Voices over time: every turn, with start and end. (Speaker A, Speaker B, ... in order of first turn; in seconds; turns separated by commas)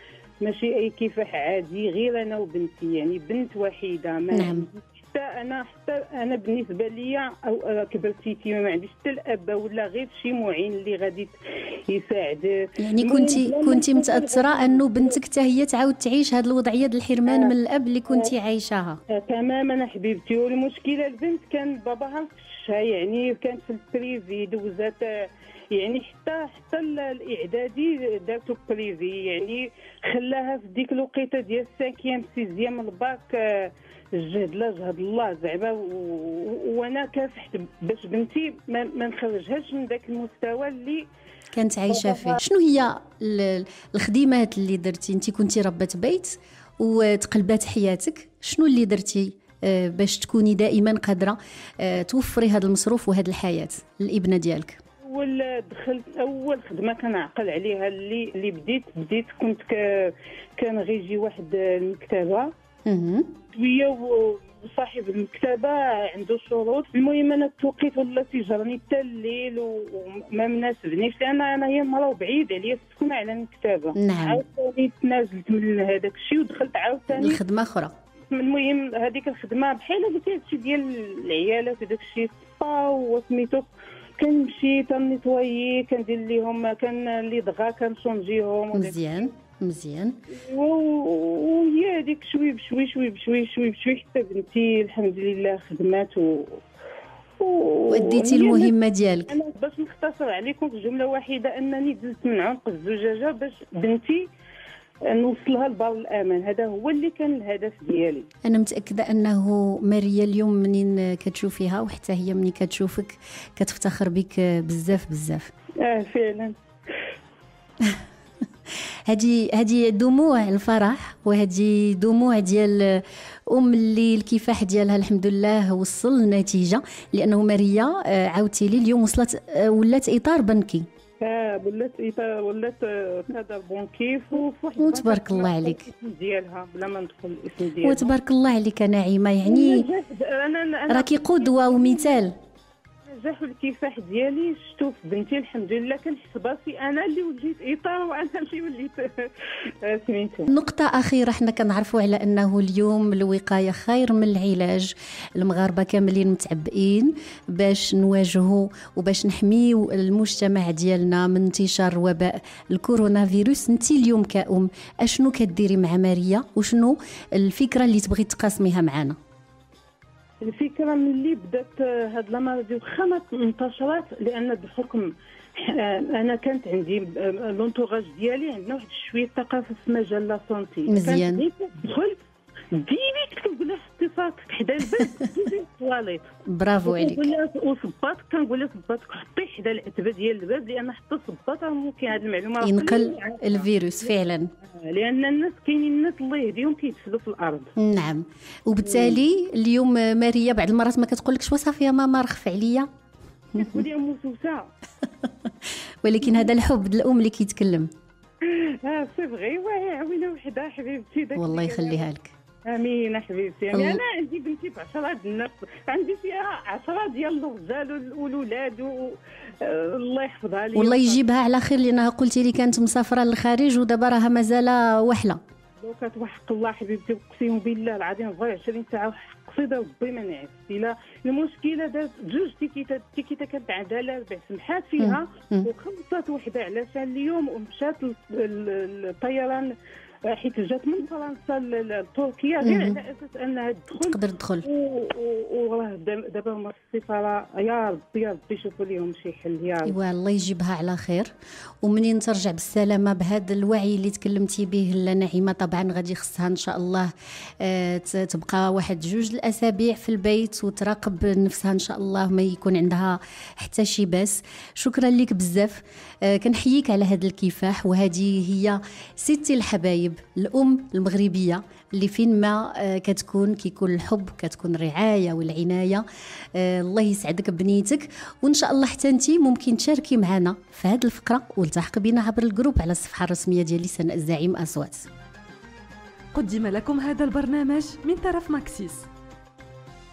Speaker A: 0.4-15.2, Speaker B: 4.3-4.7, Speaker B: 12.8-19.0, Speaker A: 17.3-17.6, Speaker A: 19.1-41.1, Speaker B: 41.5-54.8, Speaker A: 41.9-42.4, Speaker A: 55.0-62.5, Speaker B: 62.9-63.3, Speaker A: 63.5-77.4, Speaker B: 74.0-74.4, Speaker B: 77.1-77.9, Speaker A: 78.3-89.0, Speaker B: 88.7-90.2, Speaker A: 90.3-96.6, Speaker A: 97.4-98.7, Speaker B: 97.9-99.3, Speaker A: 99.3-104.3, Speaker A: 105.0-108.3, Speaker B: 108.5-115.5, Speaker A: 115.8-116.5, Speaker B: 119.1-130.9, Speaker A: 131.2-138.1, Speaker B: 134.8-135.9, Speaker B: 137.8-139.9, Speaker A: 139.4-142.2, Speaker B: 140.9-142.3, Speaker A: 143.1-150.5, Speaker B: 150.5-169.2, Speaker A: 170.4-182.2, Speaker B: 180.9-181.4, Speaker A: 182.7-186.2, Speaker B: 186.5-187.3, Speaker A: 186.8-194.1, Speaker B: 192.6-194.5, Speaker A: 194.7-197.7, Speaker B: 197.8-202.9, Speaker A: 198.8-199.2, Speaker B: 203.5-203.8, Speaker A: 203.6-204.7, Speaker B: 205.2-205.5, Speaker B: 206.0-207.9, Speaker A: 206.2-206.5, Speaker A: 208.4-212.1, Speaker B: 211.4-212.3, Speaker A: 212.7-221.2, Speaker B: 213.7-214.0, Speaker B: 220.8-225.4, Speaker A: 225.8-239.7, Speaker B: 235.0-235.7, Speaker A: 240.3-250.0, Speaker B: 242.6-243.0, Speaker B: 244.0-244.7, Speaker B: 249.8-276.0, Speaker B: 276.6-285.1, Speaker C: 286.3-289.1